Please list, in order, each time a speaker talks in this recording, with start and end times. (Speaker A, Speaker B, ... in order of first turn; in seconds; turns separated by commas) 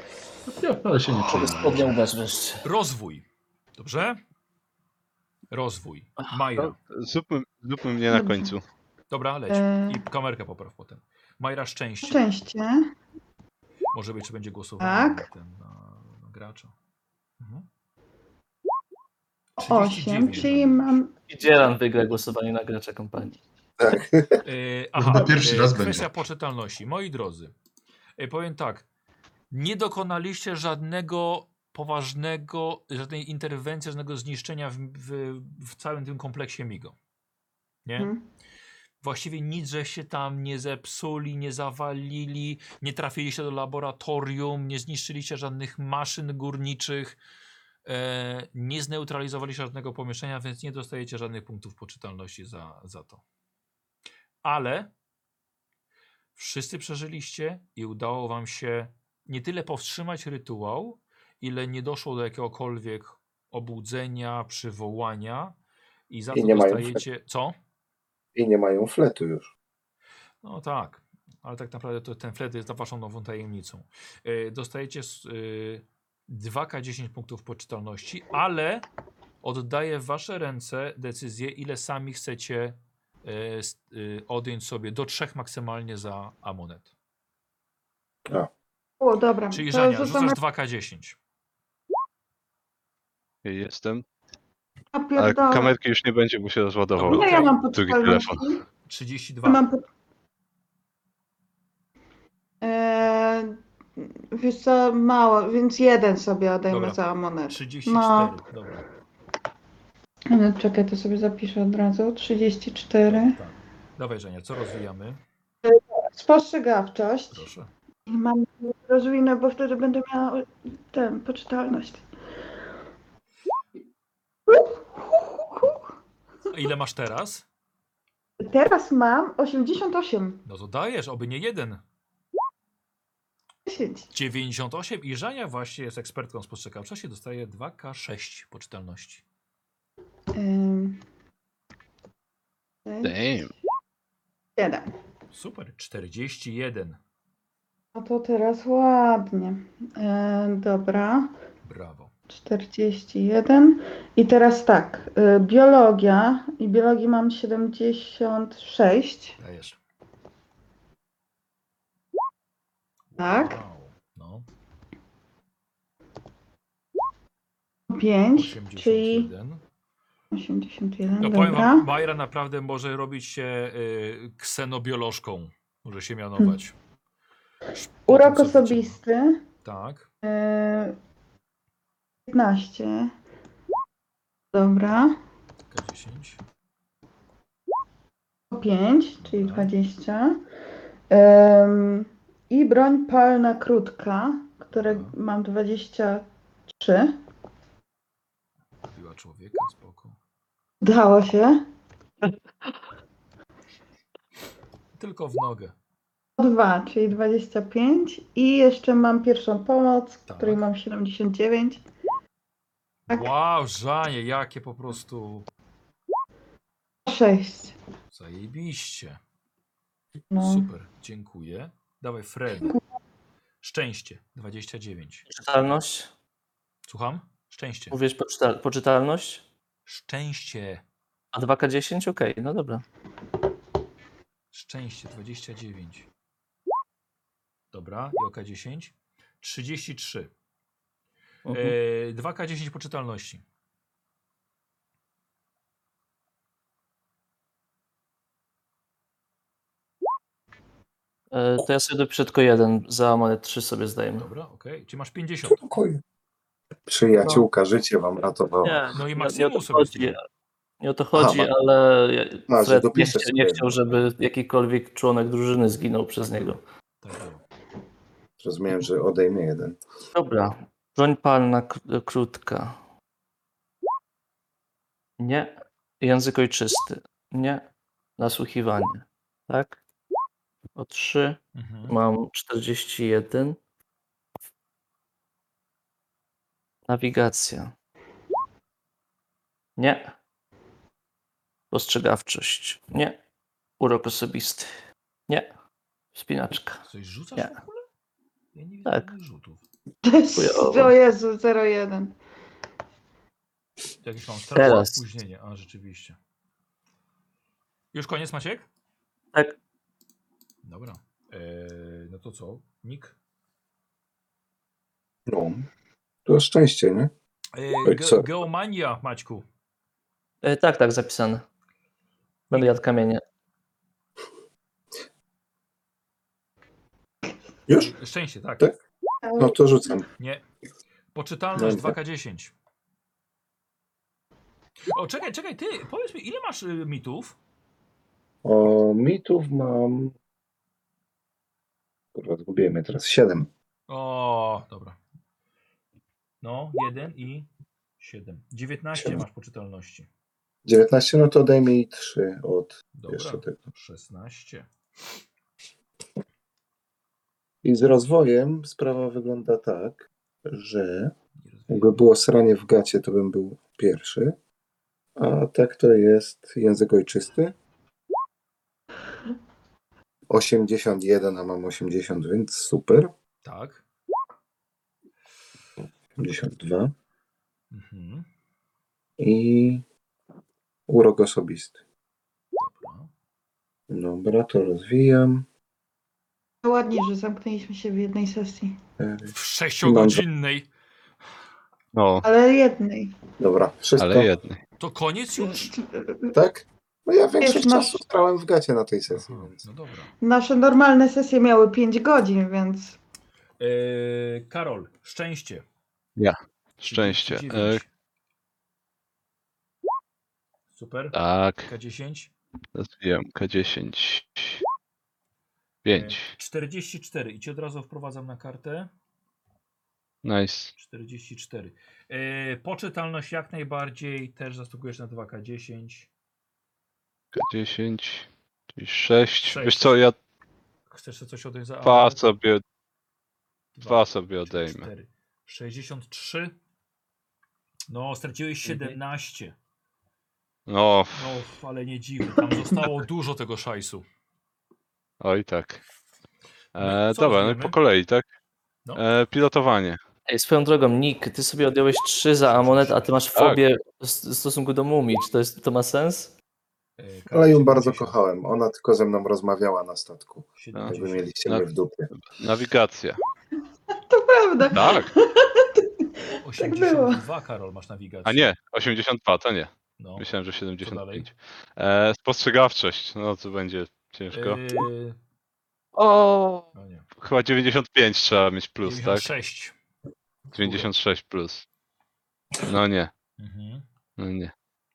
Speaker A: 0.5-2.0, Speaker B: 1.2-2.6, Speaker C: 2.6-3.2, Speaker C: 3.8-4.2, Speaker C: 5.5-6.8, Speaker D: 6.6-8.6, Speaker E: 8.1-8.5, Speaker C: 9.1-12.2, Speaker E: 9.5-10.0, Speaker E: 12.0-12.9, Speaker C: 13.9-16.7, Speaker E: 14.8-15.2, Speaker C: 17.4-17.6, Speaker C: 19.6-21.0, Speaker E: 19.6-21.6, Speaker B: 21.3-23.4, Speaker F: 23.8-24.4, Speaker C: 24.4-27.5, Speaker A: 24.9-26.2, Speaker C: 28.2-28.9, Speaker C: 29.5-37.0, Speaker C: 37.8-38.1, Speaker E: 38.0-38.2, Speaker C: 39.0-47.2, Speaker C: 47.8-53.2, Speaker C: 54.4-54.9, Speaker C: 56.3-65.5, Speaker C: 66.1-67.5, Speaker F: 66.3-67.0, Speaker F: 68.3-69.5, Speaker C: 70.4-78.8, Speaker C: 79.4-86.9, Speaker E: 89.0-90.4, Speaker C: 89.5-91.2, Speaker D: 93.4-94.0, Speaker E: 94.9-95.7, Speaker D: 95.2-98.4, Speaker C: 97.0-97.6, Speaker E: 97.0-98.6, Speaker C: 98.8-99.6, Speaker E: 99.5-99.8, Speaker E: 102.6-108.3, Speaker C: 106.7-108.9, Speaker E: 110.3-113.3, Speaker C: 113.0-115.2, Speaker E: 115.6-117.5, Speaker C: 117.3-117.7, Speaker E: 118.1-122.0, Speaker E: 124.5-125.8, Speaker C: 126.5-127.4, Speaker E: 128.4-130.4, Speaker C: 130.4-131.8, Speaker E: 133.7-134.1, Speaker C: 134.1-139.2, Speaker E: 140.3-141.0, Speaker E: 142.8-143.5, Speaker D: 143.0-143.5, Speaker E: 144.6-144.9, Speaker C: 145.3-147.0, Speaker E: 147.9-151.3, Speaker C: 151.6-152.1, Speaker E: 152.3-159.3, Speaker C: 159.4-159.8, Speaker C: 163.1-164.4, Speaker E: 163.2-163.6, Speaker E: 167.9-169.3, Speaker C: 168.3-169.6, Speaker E: 170.3-171.9, Speaker C: 171.2-176.8, Speaker C: 178.1-179.0, Speaker E: 178.1-179.4, Speaker C: 179.6-180.1, Speaker E: 180.2-180.9, Speaker E: 182.3-183.1, Speaker E: 184.5-185.2, Speaker C: 185.7-186.4, Speaker E: 188.5-190.4, Speaker C: 189.2-189.7, Speaker E: 191.1-197.2, Speaker C: 194.7-195.1, Speaker C: 198.9-200.2, Speaker E: 200.8-201.7, Speaker C: 204.9-205.7, Speaker E: 206.4-211.8, Speaker C: 210.3-210.6, Speaker C: 213.1-215.5, Speaker E: 217.1-217.8, Speaker C: 218.1-219.2, Speaker E: 220.3-220.7, Speaker C: 220.4-222.8, Speaker C: 223.6-225.3, Speaker B: 225.3-226.1, Speaker C: 226.8-228.0, Speaker B: 227.9-229.4, Speaker C: 229.8-230.8, Speaker B: 231.3-232.8, Speaker C: 234.5-236.1, Speaker C: 237.7-240.3, Speaker B: 241.5-241.8, Speaker C: 241.5-243.4, Speaker B: 251.3-254.3, Speaker C: 254.2-255.6, Speaker F: 255.5-256.0, Speaker F: 256.9-258.9, Speaker B: 258.6-260.2, Speaker C: 258.9-260.1, Speaker B: 260.8-266.6, Speaker F: 261.1-261.5, Speaker F: 262.5-263.7, Speaker C: 267.0-267.4, Speaker F: 268.4-269.8, Speaker B: 270.1-272.8, Speaker B: 275.2-277.6, Speaker B: 278.2-279.8, Speaker B: 280.8-283.6, Speaker C: 281.5-282.0, Speaker B: 286.9-287.7, Speaker B: 289.8-290.1, Speaker B: 291.7-293.2, Speaker B: 293.8-294.7, Speaker B: 296.1-296.8, Speaker C: 296.9-297.8, Speaker C: 298.5-299.6, Speaker E: 300.0-302.1, Speaker B: 300.4-300.9, Speaker C: 304.0-306.2, Speaker B: 304.5-305.0, Speaker C: 307.9-308.7, Speaker C: 310.6-313.1, Speaker F: 315.3-315.7, Speaker F: 316.2-317.1, Speaker C: 317.5-319.4, Speaker F: 317.8-318.3, Speaker B: 320.4-321.4, Speaker B: 322.5-323.2, Speaker F: 327.7-327.9, Speaker C: 327.8-328.7, Speaker E: 329.2-329.6, Speaker F: 329.4-330.1, Speaker C: 330.2-330.4, Speaker C: 331.1-332.5, Speaker F: 331.5-331.9, Speaker C: 334.9-337.4, Speaker F: 338.4-340.1, Speaker F: 342.1-343.5, Speaker C: 343.9-345.0, Speaker C: 346.4-347.5, Speaker C: 348.0-350.1, Speaker F: 348.9-349.2, Speaker F: 350.6-353.6, Speaker C: 352.9-354.7, Speaker F: 357.6-361.1, Speaker C: 361.4-362.0, Speaker F: 361.7-364.4, Speaker F: 365.2-367.6, Speaker F: 370.3-373.1, Speaker C: 373.4-373.8, Speaker F: 376.2-376.9, Speaker C: 377.7-378.3, Speaker F: 379.2-379.8, Speaker F: 380.9-381.8, Speaker C: 382.6-383.1, Speaker F: 383.9-385.4, Speaker E: 386.6-388.8, Speaker F: 389.0-390.2, Speaker C: 389.3-390.7, Speaker D: 391.9-392.2, Speaker E: 392.2-393.2, Speaker F: 393.4-394.3, Speaker D: 394.0-394.6, Speaker C: 394.8-395.8, Speaker E: 395.5-396.3, Speaker F: 396.3-399.6, Speaker E: 397.4-398.0, Speaker C: 399.1-400.1, Speaker E: 400.2-403.0, Speaker C: 403.6-405.6, Speaker D: 406.2-407.8, Speaker C: 406.8-407.9, Speaker C: 410.7-412.3, Speaker D: 411.1-411.7, Speaker D: 412.7-414.6, Speaker D: 415.8-416.3, Speaker C: 415.9-418.9, Speaker D: 420.2-420.7, Speaker C: 420.7-426.1, Speaker D: 427.3-430.1, Speaker C: 429.5-430.0, Speaker C: 430.9-432.3, Speaker D: 431.8-432.6, Speaker C: 433.7-436.5, Speaker D: 433.8-434.9, Speaker C: 437.9-439.5, Speaker D: 440.7-441.4, Speaker C: 441.1-444.0, Speaker D: 445.2-445.8, Speaker D: 446.7-448.2, Speaker C: 446.8-447.8, Speaker D: 448.9-450.0, Speaker B: 450.3-456.3, Speaker C: 452.4-453.1, Speaker D: 453.3-453.6, Speaker C: 457.0-458.1, Speaker F: 457.3-462.1, Speaker C: 460.6-461.3, Speaker D: 460.7-463.2, Speaker E: 464.1-467.2, Speaker D: 464.7-465.1, Speaker C: 466.4-468.5, Speaker D: 468.2-474.7, Speaker C: 470.0-470.3, Speaker C: 470.8-471.3, Speaker C: 474.3-475.2, Speaker D: 475.9-476.7, Speaker C: 476.7-477.1, Speaker D: 477.2-479.3, Speaker C: 478.8-479.7, Speaker D: 480.5-481.6, Speaker C: 480.6-480.9, Speaker D: 482.6-483.1, Speaker C: 483.4-483.8, Speaker D: 484.2-484.5